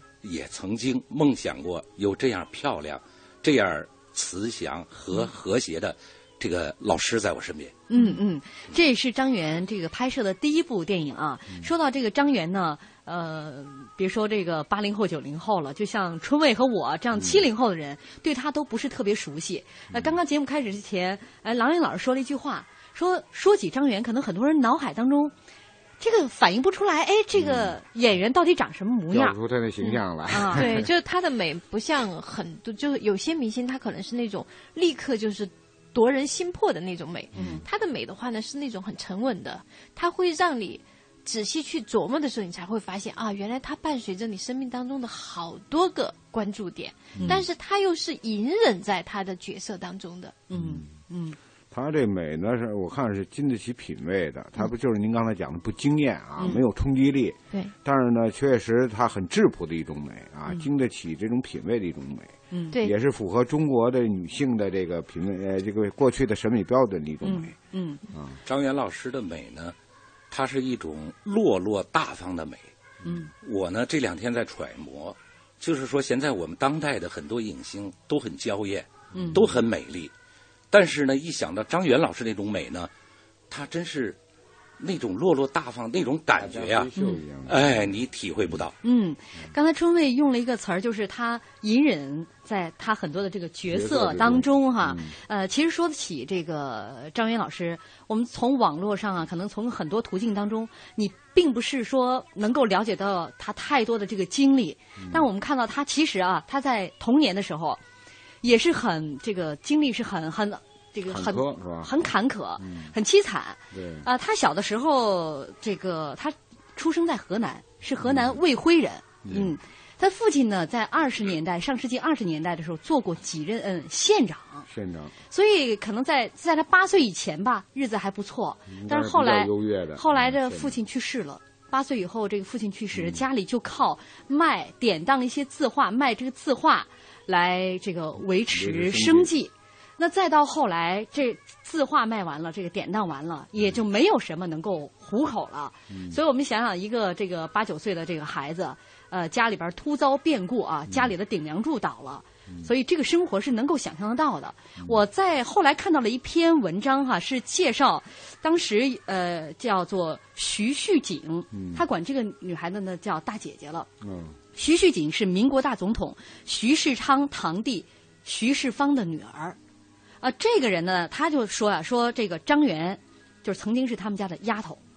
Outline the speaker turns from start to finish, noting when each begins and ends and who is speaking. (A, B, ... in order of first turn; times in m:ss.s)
0:00.2-0:07.8 A
0:07.9-0:25.3 B
0:07.9-0:08.2 C
0:17.2-0:17.4 D
0:19.9-0:20.2 D
0:26.0-0:29.4 B
0:27.4-0:27.8 D
0:29.1-0:30.9 D
0:30.3-0:30.7 B
0:30.5-0:50.4 C
0:37.4-0:37.6 B
0:47.2-0:47.4 D
0:47.2-0:47.4 B
0:50.5-0:51.4 B
0:50.5-0:50.9 D
0:51.7-1:07.5 D
1:02.5-1:02.8 B
1:07.2-1:08.0 B
1:08.1-1:08.4 D
1:08.5-1:09.8 A
1:10.3-1:12.7 A
1:13.4-1:20.1 A
1:19.1-1:19.6 D
1:20.7-1:22.9 A
1:23.5-1:24.2 A
1:24.8-1:26.9 A
1:26.4-1:28.0 D
1:27.5-1:28.7 A
1:28.8-1:47.8 B
1:33.7-1:35.1 D
1:45.0-1:45.3 D
1:48.4-2:04.7 B
1:51.1-1:52.9 D
1:53.7-1:54.1 D
1:58.0-1:58.4 D
1:59.2-1:59.6 D
2:04.7-2:05.2 D
2:05.3-2:43.9 B
2:08.7-2:10.8 D
2:12.9-2:13.2 D
2:18.5-2:19.3 D
2:25.9-2:26.2 D
2:41.5-2:41.8 D
2:44.0-2:44.4 D
2:44.6-2:49.6 B
2:50.2-2:54.8 B